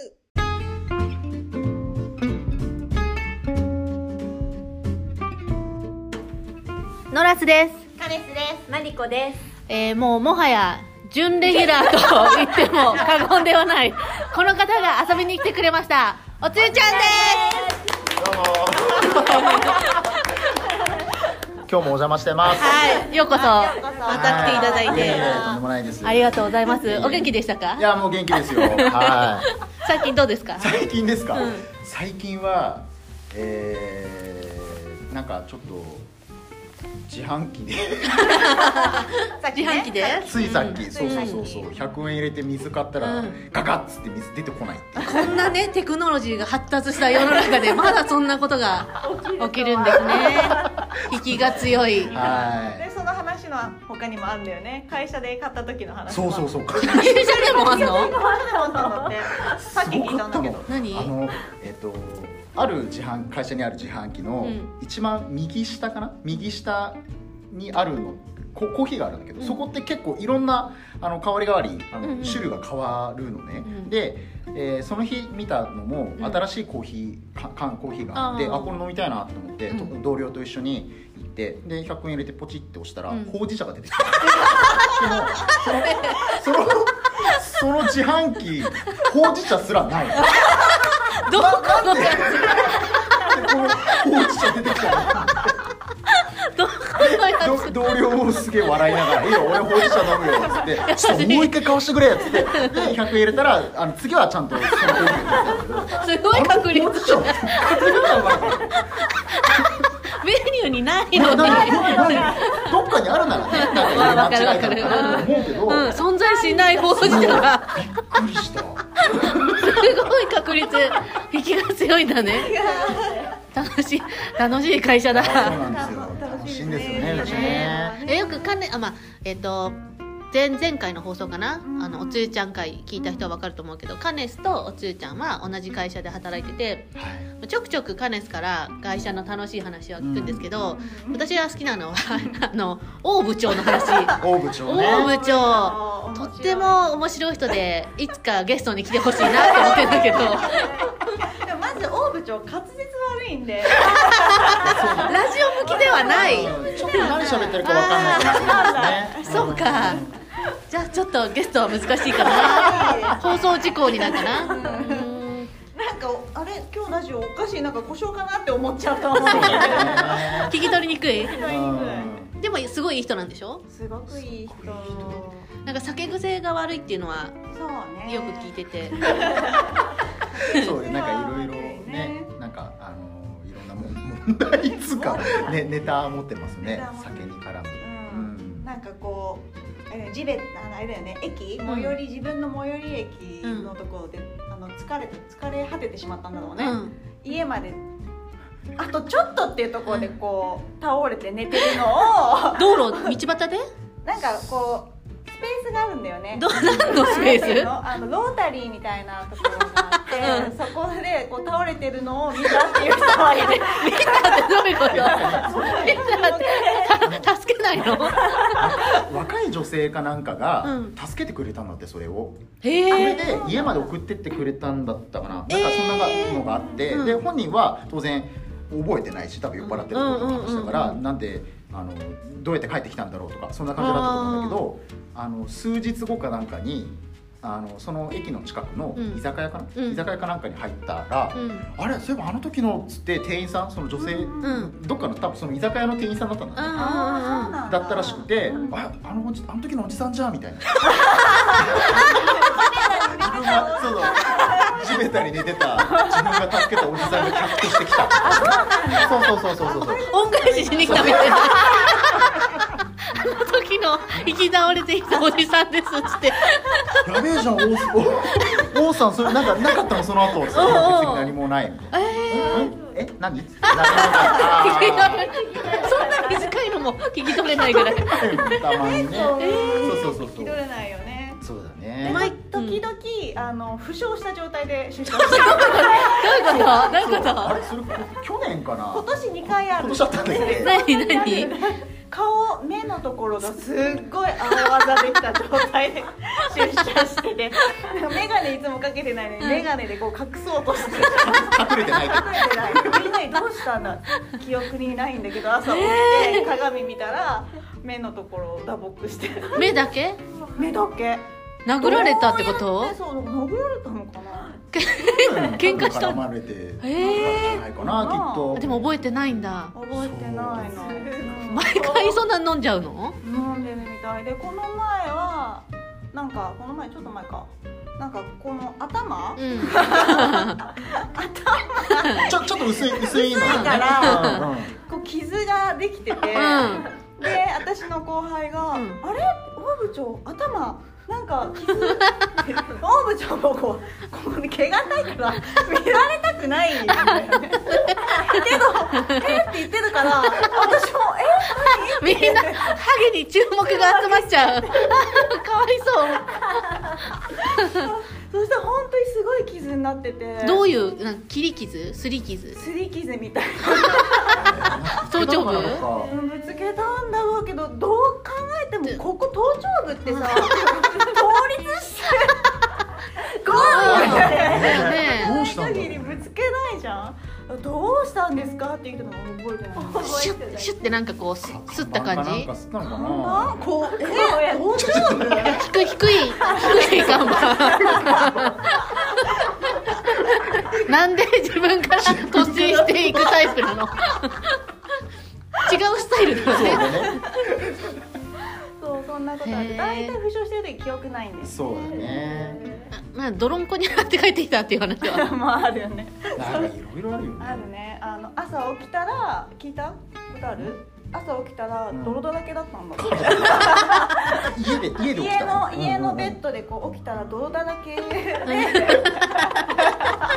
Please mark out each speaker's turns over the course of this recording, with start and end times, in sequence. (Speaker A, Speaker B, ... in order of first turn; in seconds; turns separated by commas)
Speaker A: 7.1-7.9, Speaker B: 8.0-8.6, Speaker C: 8.1-9.4, Speaker A: 9.7-17.7, Speaker C: 16.6-17.8, Speaker D: 18.2-20.0, Speaker A: 19.1-20.2, Speaker D: 21.6-23.0, Speaker A: 22.5-25.5, Speaker B: 22.7-25.6, Speaker C: 23.9-25.1, Speaker D: 24.1-29.6, Speaker A: 26.0-30.8, Speaker D: 30.6-36.1, Speaker A: 31.3-31.7, Speaker D: 37.1-38.7, Speaker A: 38.2-41.4, Speaker B: 38.4-41.7, Speaker D: 40.2-45.5, Speaker A: 43.0-43.4, Speaker A: 45.0-52.2, Speaker B: 45.1-45.5, Speaker C: 49.0-50.7, Speaker B: 50.0-50.5, Speaker D: 51.4-52.9, Speaker B: 52.1-60.7, Speaker D: 56.1-57.3, Speaker A: 56.8-58.1, Speaker C: 58.0-59.4, Speaker D: 59.4-67.0, Speaker A: 60.7-61.1, Speaker A: 64.4-64.7, Speaker D: 67.5-90.4, Speaker A: 69.4-69.7, Speaker A: 72.0-72.6, Speaker A: 73.7-73.9, Speaker A: 76.2-76.4, Speaker A: 78.2-78.8, Speaker A: 83.1-83.4, Speaker A: 84.1-86.4, Speaker A: 90.2-95.2, Speaker D: 91.2-95.6, Speaker A: 96.1-97.8, Speaker D: 97.0-109.0, Speaker A: 98.8-101.7, Speaker A: 102.5-102.9, Speaker A: 105.9-108.1, Speaker A: 109.3-112.7, Speaker D: 111.1-116.0, Speaker A: 113.5-117.8, Speaker B: 115.0-115.5, Speaker B: 116.4-117.4, Speaker C: 116.5-116.8, Speaker D: 117.0-120.1, Speaker A: 119.1-122.5, Speaker B: 122.3-123.4, Speaker C: 122.6-123.1, Speaker A: 123.5-125.6, Speaker D: 125.1-127.9, Speaker B: 125.3-128.6, Speaker A: 126.9-129.8, Speaker A: 130.3-150.9, Speaker B: 131.7-132.3, Speaker B: 133.0-133.3, Speaker D: 137.0-137.3, Speaker D: 140.0-140.6, Speaker B: 140.6-141.3, Speaker B: 143.6-144.2, Speaker D: 144.2-145.2, Speaker B: 144.8-146.9, Speaker B: 149.2-160.1, Speaker A: 153.9-158.6, Speaker D: 154.6-155.3, Speaker D: 155.9-160.2, Speaker A: 159.2-160.0, Speaker A: 160.7-165.5, Speaker B: 162.1-165.1, Speaker C: 162.3-163.2, Speaker B: 165.7-172.2, Speaker D: 169.2-170.6, Speaker A: 169.2-171.5, Speaker D: 171.4-172.4, Speaker A: 172.4-173.7, Speaker B: 173.7-175.5, Speaker D: 174.1-175.3, Speaker A: 175.7-177.4, Speaker B: 177.5-182.3, Speaker A: 178.1-179.6, Speaker D: 180.5-188.7, Speaker B: 184.9-185.7, Speaker B: 186.6-197.8, Speaker A: 191.7-192.0, Speaker A: 193.4-193.7, Speaker A: 196.6-197.0, Speaker B: 198.8-203.2, Speaker A: 199.9-200.1, Speaker A: 202.5-203.6, Speaker B: 204.0-216.9, Speaker A: 206.3-207.7, Speaker A: 210.0-210.5, Speaker A: 212.9-218.7, Speaker D: 214.8-216.4, Speaker D: 217.0-246.8, Speaker A: 220.6-221.0, Speaker A: 222.6-223.4, Speaker B: 223.3-223.8, Speaker A: 225.5-227.2, Speaker A: 229.6-231.0, Speaker A: 233.8-234.6, Speaker A: 239.0-239.2, Speaker A: 239.8-240.0, Speaker A: 241.3-241.7, Speaker B: 244.0-244.7, Speaker A: 244.4-244.7, Speaker A: 246.6-247.6, Speaker B: 246.7-248.8, Speaker D: 247.6-250.9, Speaker B: 251.2-255.0, Speaker D: 251.5-260.1, Speaker B: 255.8-256.5, Speaker B: 257.0-262.0, Speaker A: 260.1-262.5, Speaker D: 260.8-261.4, Speaker D: 262.3-262.6, Speaker A: 263.1-267.1, Speaker D: 267.0-275.4, Speaker A: 270.4-271.3, Speaker A: 271.9-272.7, Speaker A: 273.6-278.7, Speaker C: 275.5-276.4, Speaker B: 275.7-276.2, Speaker D: 277.6-280.6, Speaker B: 278.8-281.4, Speaker A: 279.4-280.0, Speaker D: 281.4-282.3, Speaker B: 282.0-286.8, Speaker A: 282.1-282.8, Speaker A: 285.2-287.6, Speaker D: 286.2-290.7, Speaker B: 288.9-309.8, Speaker A: 290.6-291.5, Speaker A: 299.4-299.7, Speaker D: 300.9-303.2, Speaker A: 305.7-306.5, Speaker A: 309.6-310.2, Speaker B: 310.5-311.3, Speaker A: 311.7-312.9, Speaker B: 311.8-314.6, Speaker A: 314.7-316.2, Speaker D: 315.1-318.9, Speaker A: 316.8-317.7, Speaker B: 317.0-318.7, Speaker A: 318.6-319.7, Speaker B: 319.7-322.2, Speaker D: 319.9-320.9, Speaker A: 321.4-323.2, Speaker B: 323.2-352.8, Speaker A: 329.4-330.6, Speaker A: 332.1-332.3, Speaker D: 332.1-334.7, Speaker A: 333.4-334.4, Speaker C: 333.4-334.4, Speaker A: 336.3-336.9, Speaker A: 338.7-339.0, Speaker A: 347.7-349.4, Speaker A: 350.2-350.7, Speaker A: 351.6-356.9, Speaker B: 357.3-360.6, Speaker A: 360.4-362.6, Speaker B: 362.5-364.6, Speaker D: 364.3-366.1, Speaker A: 365.0-365.9, Speaker B: 365.9-380.2, Speaker A: 370.1-370.5, Speaker D: 373.5-376.3, Speaker A: 373.5-375.4, Speaker C: 379.8-380.8, Speaker A: 380.0-382.5, Speaker D: 381.4-383.6, Speaker B: 382.9-385.6, Speaker C: 383.8-385.4, Speaker D: 384.7-385.7, Speaker A: 385.4-394.6, Speaker B: 386.4-388.2, Speaker D: 386.8-388.3, Speaker D: 392.0-393.5, Speaker A: 395.6-397.2, Speaker D: 396.4-397.9, Speaker B: 398.8-402.2, Speaker A: 399.4-400.2, Speaker D: 401.4-402.8, Speaker A: 402.9-405.3, Speaker B: 405.0-406.7, Speaker D: 406.4-407.7, Speaker B: 407.4-414.5, Speaker D: 411.9-412.2, Speaker D: 413.0-416.4, Speaker A: 413.6-414.1, Speaker B: 415.1-420.2, Speaker A: 418.4-420.2